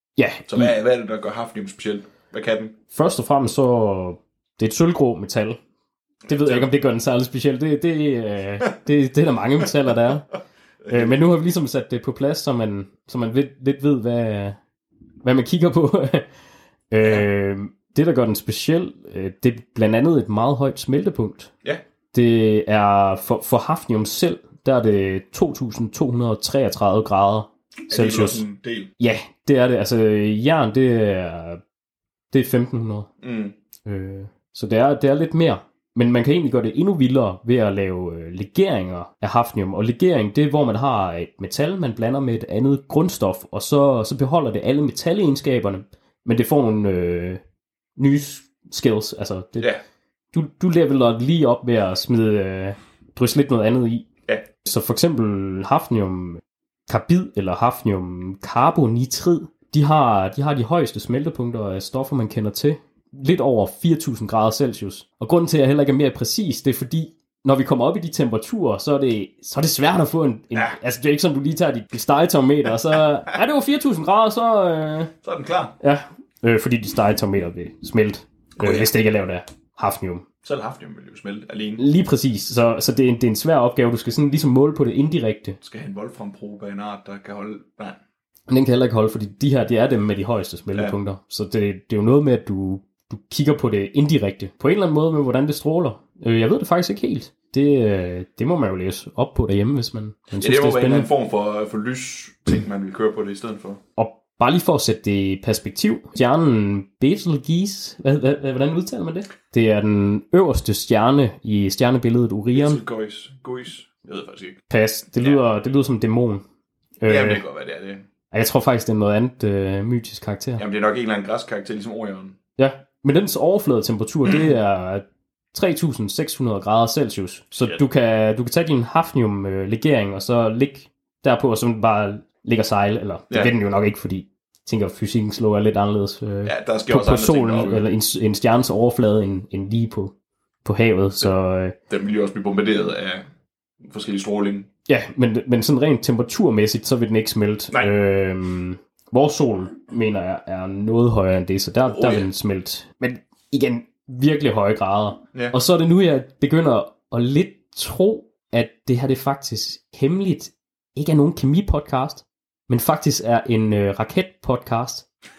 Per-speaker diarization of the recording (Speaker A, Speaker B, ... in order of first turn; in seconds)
Speaker A: 0.2-0.7, 2.9-5.6, 6.3-10.3, 10.9-14.6, 15.2-16.3, 16.9-21.5, 22.1-28.4, 29.0-31.6, 32.3-33.1, 33.9-47.4, 48.0-49.7, 50.3-54.1, 54.6-75.1, 75.8-80.2, 81.8-85.6, 88.5-101.1, 104.0-112.8, 114.7-116.4, 117.0-117.4, 118.3-120.6, 122.6-141.8, 144.9-165.1
Speaker B: 0.5-2.7, 6.2-6.7, 10.8-11.2, 27.9-28.9, 33.2-33.5, 75.2-75.7, 78.6-78.9, 80.4-81.8, 85.6-88.0, 100.3-103.8, 112.5-114.6, 117.0-118.0, 120.6-122.4, 124.2-124.5, 127.5-127.8, 136.4-137.8, 141.9-143.2, 143.8-144.7, 151.9-152.3